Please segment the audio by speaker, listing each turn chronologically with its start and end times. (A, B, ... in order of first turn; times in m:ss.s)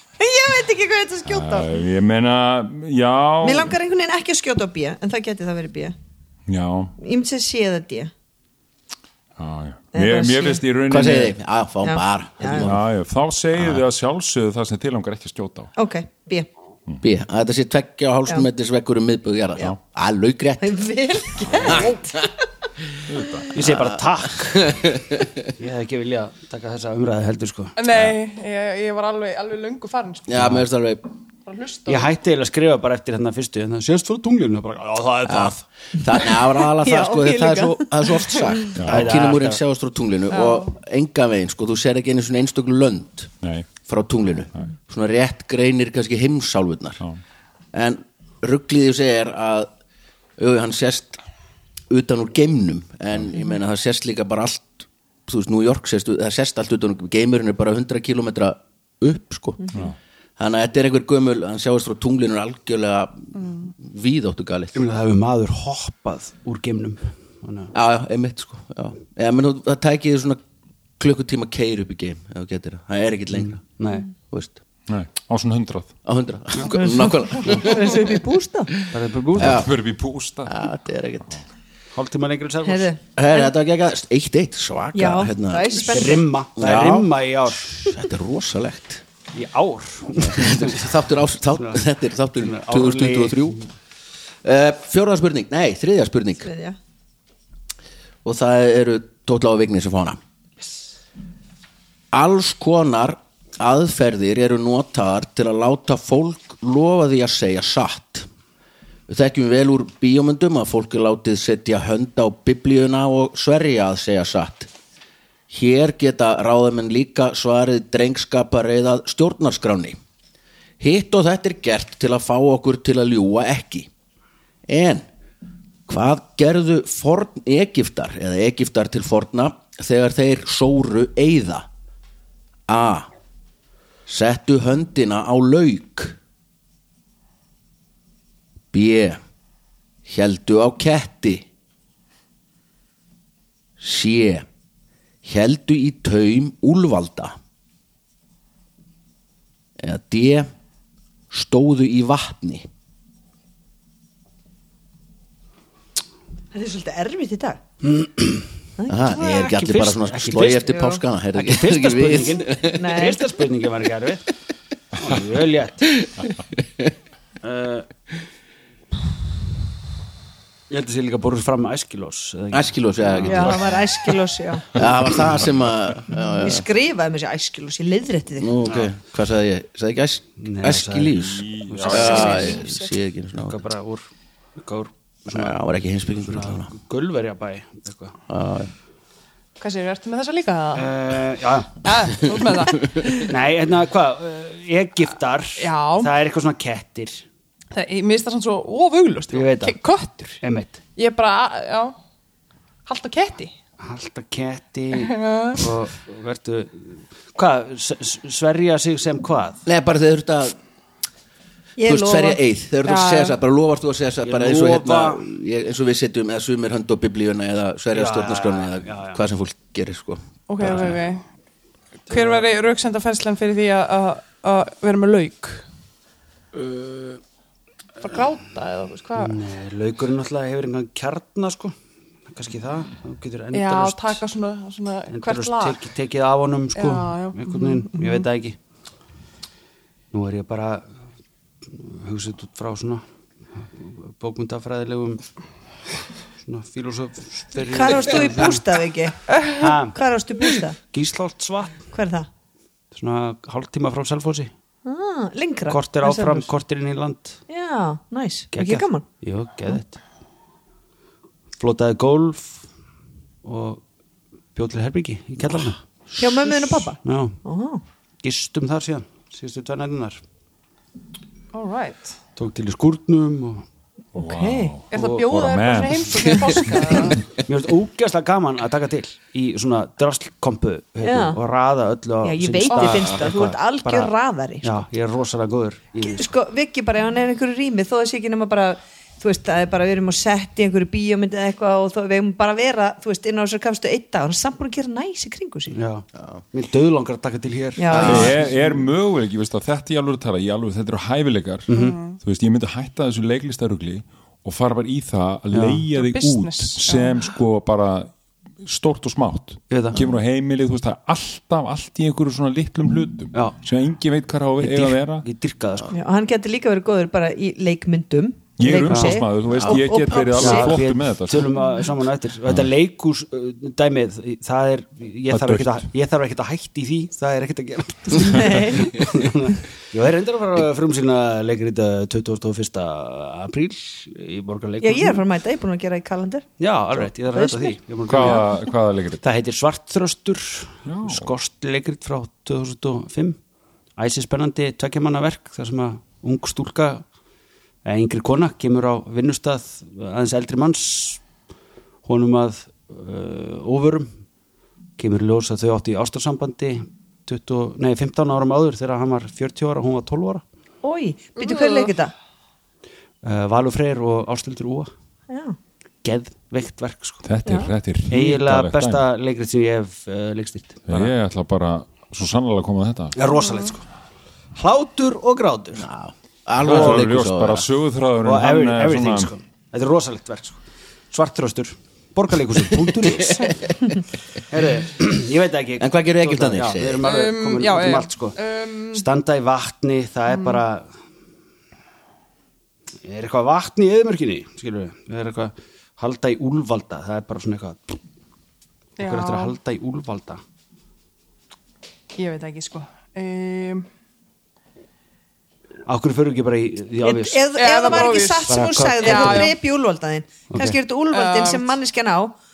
0:00.2-0:01.8 A
0:01.2-0:03.7 B
0:03.4-0:05.9 A
0:06.5-0:06.9 B
0:07.0-0:08.1 A
0:09.4-0:11.4 B
0:09.9-0:10.6 A
0:10.9-0:12.8 C
0:11.8-0:12.7 A
0:12.6-0:15.7 B
0:15.8-0:16.5 A
0:17.0-0:20.8 C
0:20.6-0:22.2 A
0:21.5-0:22.0 C
0:23.1-0:23.5 B
0:23.5-0:24.9 D
0:23.6-0:25.4 C
0:25.6-0:27.7 D
0:27.8-0:30.4 E
0:27.9-0:28.2 B
0:30.3-0:31.0 C
0:31.4-0:32.1 E
0:31.9-0:35.6 D
0:35.2-0:43.3 C
0:36.6-0:38.6 A
0:38.8-0:39.2 B
0:38.9-0:39.6 D
0:40.3-0:40.6 A
0:43.4-0:43.7 B
0:43.9-0:47.0 C
0:47.7-0:49.7 C
0:50.4-0:51.2 C
0:51.9-0:59.8 C
1:00.4-1:04.8 C
1:03.4-1:03.7 E
1:04.7-1:07.7 D
1:07.7-1:10.4 C
1:11.0-1:13.6 C
1:13.3-1:14.0 D
1:14.3-1:14.6 C
1:14.9-1:15.9 B
1:16.0-1:18.1 C
1:16.7-1:18.7 A
1:18.8-1:19.7 C
1:18.9-1:19.6 D
1:19.3-1:20.5 B
1:20.4-1:21.4 C
1:21.9-1:22.9 D
1:22.6-1:23.5 A
1:23.2-1:25.9 C
1:24.9-1:26.2 A
1:25.9-1:28.1 D
1:26.6-1:27.1 C
1:27.8-1:29.0 C
1:29.3-1:30.9 D
1:30.1-1:33.6 C
1:31.6-1:31.8 D
1:32.4-1:33.6 D
1:34.4-1:36.5 C
1:36.4-1:36.8 A
1:38.2-1:40.2 C
1:42.1-1:48.3 C
1:49.1-1:54.7 C
1:55.5-2:00.0 C
2:00.8-2:03.9 C
2:04.7-2:05.0 C
2:05.9-2:11.7 C
2:12.7-2:13.1 C
2:14.1-2:16.2 C
2:18.7-2:19.2 C
2:20.0-2:21.4 C
2:23.8-2:24.4 C
2:25.2-2:27.3 C
2:29.8-2:30.5 C
2:31.3-2:32.6 C
2:36.5-2:37.6 A
2:37.8-2:38.5 D
2:38.9-2:42.9 C
2:39.1-2:40.7 D
2:40.6-2:41.0 A
2:41.4-2:44.3 D
2:42.8-2:43.2 A
2:44.9-2:46.0 D
2:46.0-2:46.9 C
2:47.4-2:47.9 D
2:50.7-2:53.6 D
2:52.5-2:53.8 C
2:53.2-2:54.7 A
2:54.7-2:56.6 C
2:56.4-2:58.5 A
2:58.4-3:03.6 C
2:58.6-2:58.9 D
3:00.4-3:02.6 D
3:01.2-3:02.0 B
3:01.7-3:02.9 E
3:03.4-3:05.6 D
3:05.3-3:06.7 C
3:06.2-3:08.2 D
3:08.3-3:08.7 C
3:09.6-3:10.9 E
3:10.7-3:12.3 D
3:11.8-3:13.3 E
3:13.2-3:17.2 D
3:15.6-3:16.1 E
3:17.7-3:20.4 E
3:19.3-3:19.8 D
3:20.4-3:20.8 D
3:20.9-3:21.9 E
3:22.8-3:23.5 E
3:23.8-3:29.6 D
3:24.9-3:25.7 E
3:29.6-3:30.6 C
3:31.8-3:32.4 A
3:31.8-3:40.9 C
3:32.8-3:33.3 E
3:34.2-3:35.2 D
3:37.9-3:39.2 D
3:40.5-3:41.2 E
3:40.6-3:40.9 D
3:42.1-3:45.7 E
3:42.1-3:42.5 D
3:46.6-3:47.2 D
3:48.0-3:49.4 E
3:49.2-3:51.7 D
3:52.3-3:54.2 D
3:53.5-3:55.8 E
3:55.1-3:58.6 D
3:56.8-3:58.2 E
4:00.1-4:01.0 D
4:01.6-4:03.0 D
4:03.6-4:05.2 D
4:06.4-4:08.6 D
4:07.7-4:10.8 A
4:09.4-4:09.7 E
4:09.6-4:10.0 D
4:10.8-4:11.8 D
4:11.9-4:12.3 A
4:12.9-4:14.5 D
4:14.8-4:16.5 A
4:15.7-4:17.4 D
4:17.5-4:19.0 A
4:18.5-4:20.0 D
4:21.6-4:22.6 D
4:23.4-4:23.8 D
4:24.5-4:25.8 D
4:26.2-4:27.8 A
4:27.0-4:27.4 D
4:28.2-4:30.2 D
4:31.5-4:32.1 E
4:32.4-4:33.6 D
4:34.1-4:34.8 A
4:34.1-4:36.7 B
4:34.9-4:37.4 E
4:34.9-4:35.3 D
4:36.6-4:46.3 D
4:41.0-4:41.4 A
4:42.2-4:44.8 A
4:46.0-4:55.8 A
4:55.7-4:58.8 D
4:56.1-4:56.4 C
4:57.8-4:58.4 A
4:57.9-4:58.3 C
4:58.0-5:08.1 B
5:01.7-5:02.0 D
5:01.7-5:02.2 E
5:05.5-5:05.8 D
5:05.9-5:07.2 E
5:08.6-5:15.2 B
5:09.7-5:10.0 D
5:14.6-5:15.9 D
5:15.9-5:20.8 A
5:18.6-5:21.5 B
5:18.9-5:19.7 D
5:20.4-5:35.2 D
5:25.3-5:25.9 B
5:28.2-5:28.9 A
5:34.8-5:38.4 A
5:36.6-5:38.6 D
5:38.0-5:39.2 B
5:39.2-5:43.4 D
5:40.8-5:41.3 B
5:44.0-5:47.0 D
5:47.8-5:51.2 D
5:52.0-5:54.1 D
5:55.0-6:00.4 D
6:00.8-6:02.1 A
6:01.4-6:01.9 E
6:03.2-6:04.9 D
6:05.3-6:05.6 A
6:06.0-6:07.2 D
6:07.2-6:09.0 B
6:07.4-6:07.7 A
6:08.1-6:11.1 D
6:10.9-6:13.2 B
6:13.1-6:13.8 D
6:14.5-6:15.8 D
6:15.7-6:17.6 C
6:16.6-6:19.3 B
6:16.6-6:17.0 D
6:18.2-6:23.6 D
6:24.5-6:28.4 D
6:25.8-6:27.1 C
6:27.0-6:29.0 E
6:28.9-6:30.9 D
6:30.3-6:30.6 E
6:33.0-6:38.0 D
6:39.0-6:39.5 E
6:39.0-6:40.4 D
6:42.2-6:43.8 E
6:45.9-6:49.5 D
6:47.0-6:52.3 A
6:47.5-6:49.5 E
6:50.5-6:50.8 D
6:51.1-6:51.7 E